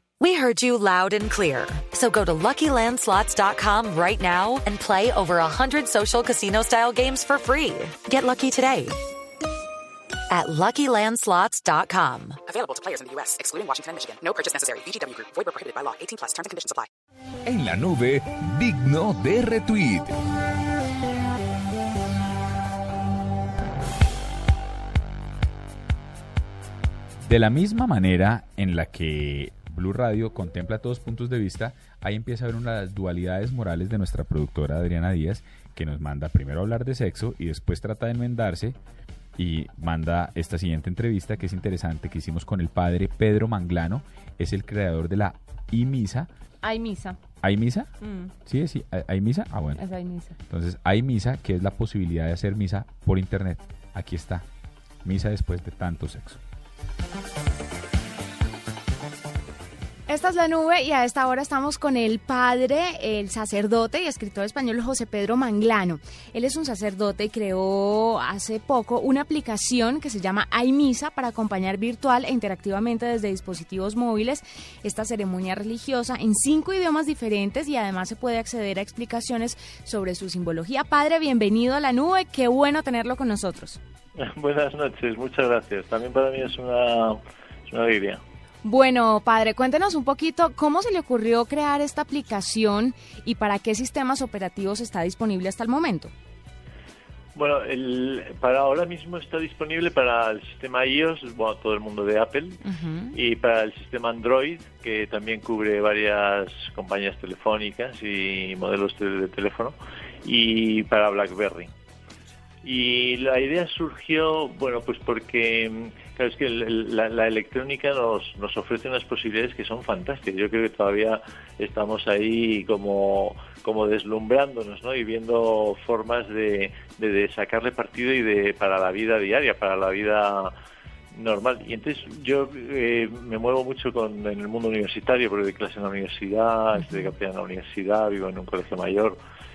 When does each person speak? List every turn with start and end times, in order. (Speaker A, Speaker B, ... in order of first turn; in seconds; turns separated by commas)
Speaker A: 0.2-8.9, Speaker A: 10.3-12.4, Speaker B: 12.5-16.9, Speaker C: 17.4-20.1, Speaker D: 27.2-38.8, Speaker D: 39.4-46.3, Speaker E: 46.6-47.2, Speaker D: 47.4-47.9, Speaker E: 48.0-48.3, Speaker D: 48.4-49.8, Speaker E: 49.7-50.4, Speaker D: 50.5-54.4, Speaker D: 55.0-56.4, Speaker E: 60.1-83.8, Speaker F: 84.2-88.2, Speaker E: 88.6-96.1, Speaker F: 97.3-102.6, Speaker E: 102.6-103.2, Speaker F: 103.1-111.7, Speaker F: 112.6-130.5, Speaker F: 131.1-139.2